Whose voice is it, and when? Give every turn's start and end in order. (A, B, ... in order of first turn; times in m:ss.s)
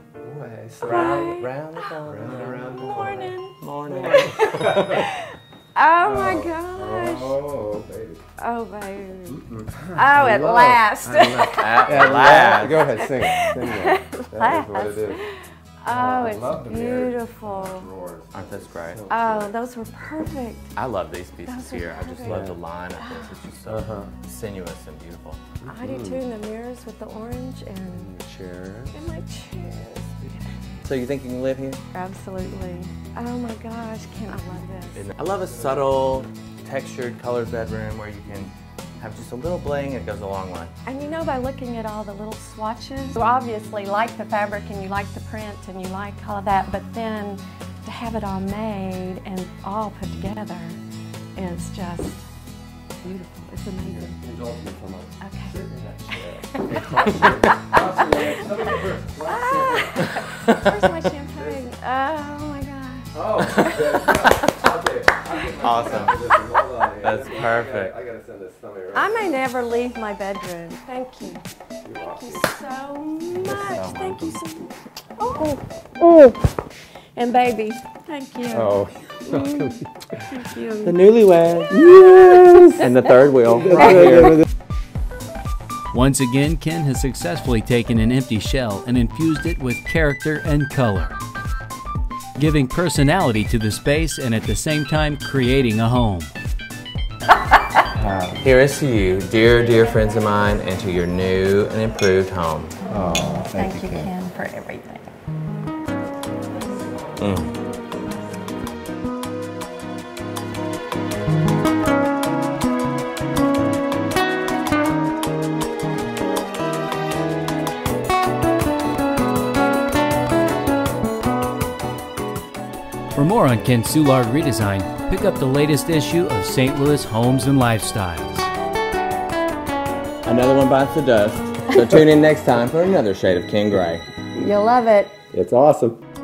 0:00.2-0:01.3 A
0:00.8-0:01.9 B
0:00.8-0:05.0 C
0:02.0-0:03.3 A
0:02.7-0:07.4 B
0:03.9-0:05.1 A
0:06.0-0:08.2 A
0:08.4-0:12.2 B
0:09.3-0:15.2 A
0:11.4-0:13.1 C
0:12.8-0:17.9 B
0:15.9-0:19.5 A
0:18.3-0:19.0 C
0:19.1-0:20.7 B
0:20.8-0:25.4 C
0:21.4-0:23.4 B
0:22.2-0:22.5 A
0:23.6-0:24.1 A
0:25.6-0:26.2 A
0:25.6-0:28.1 B
0:27.9-0:29.0 A
0:28.9-0:30.6 B
0:30.8-0:31.8 C
0:31.9-0:35.1 B
0:34.9-0:40.7 C
0:40.8-0:50.8 B
0:51.4-0:52.2 B
0:53.0-0:54.2 B
0:53.8-1:00.1 A
0:55.2-0:55.5 B
0:56.5-0:58.6 B
0:59.2-1:04.0 B
1:00.2-1:00.7 C
1:01.4-1:01.7 A
1:03.1-1:09.4 A
1:03.5-1:04.5 C
1:05.6-1:06.1 C
1:05.6-1:06.2 B
1:07.0-1:07.9 C
1:08.9-1:11.4 B
1:11.8-1:12.4 A
1:12.0-1:15.6 B
1:13.3-1:14.4 C
1:17.1-1:21.0 B
1:18.5-1:19.8 A
1:20.8-1:21.7 C
1:21.7-1:22.8 A
1:22.8-1:24.4 C
1:23.8-1:24.4 A
1:25.9-1:31.2 D
1:32.4-1:36.3 D
1:38.0-1:38.4 A
1:38.4-1:42.8 C
1:42.9-1:44.1 A
1:43.5-1:45.1 B
1:47.2-1:47.5 C
2:03.1-2:08.5 D
2:10.2-2:14.0 C
2:14.4-2:15.2 B
2:15.3-2:16.0 A